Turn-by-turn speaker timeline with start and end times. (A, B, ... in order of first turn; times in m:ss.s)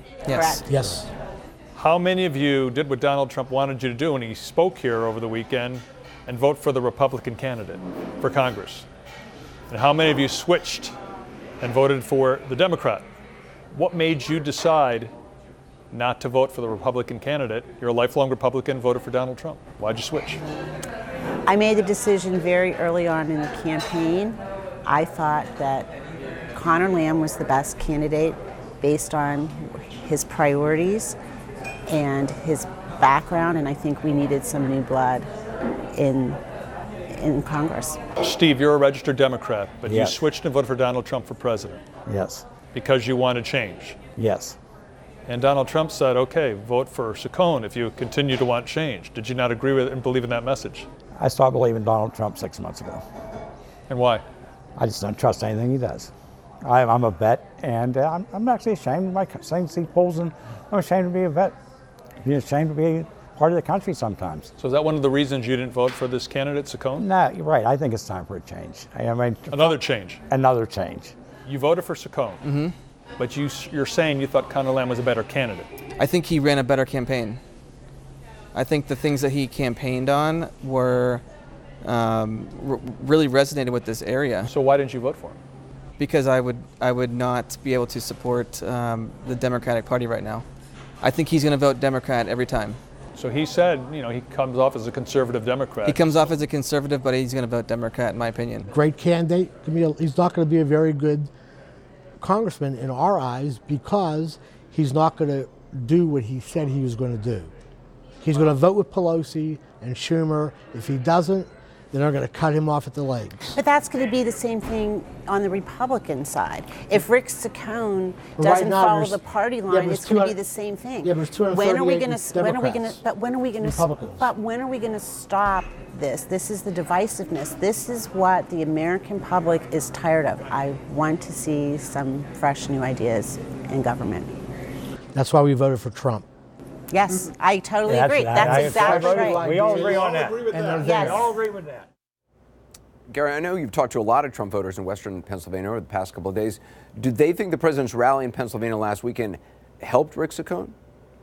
0:00.2-0:00.6 A
0:00.3-0:01.0 B
0:00.6-0:01.1 C
0:01.8-0:08.9 D
0:09.7-0:10.9 D
0:11.6-0:13.0 D
0:13.7-0:15.1 D
0:15.9-0:20.4 D
0:21.5-0:25.9 B
0:26.5-0:31.2 B
0:31.9-0:35.3 B
0:36.0-0:36.4 B
0:37.1-0:38.0 B
0:38.2-0:41.8 D
0:39.8-0:40.2 E
0:42.0-0:42.4 E
0:42.7-0:44.0 D
0:44.2-0:44.6 E
0:45.3-0:50.9 D
0:51.2-0:53.0 E
0:53.9-0:54.2 D
0:54.8-0:56.1 E
0:56.6-1:01.6 E
1:02.2-1:04.5 E
1:04.6-1:07.1 D
1:07.0-1:11.1 E
1:09.5-1:10.2 D
1:11.4-1:12.4 D
1:12.4-1:12.7 A
1:13.2-1:15.7 D
1:16.0-1:17.4 A
1:18.5-1:21.2 A
1:21.8-1:24.5 A
1:24.4-1:25.4 D
1:26.0-1:30.4 A
1:31.0-1:32.8 A
1:33.2-1:36.0 D
1:35.8-1:38.7 A
1:38.7-1:41.3 C
1:42.2-1:47.5 C
1:48.2-1:53.6 C
1:53.6-2:14.3 B
1:58.4-2:00.4 C
2:01.0-2:03.0 C
2:03.6-2:04.3 C
2:15.1-2:16.2 C
2:16.9-2:19.5 B
2:17.9-2:21.8 E
2:18.4-2:21.3 C
2:20.8-2:21.3 B
2:23.1-2:30.7 F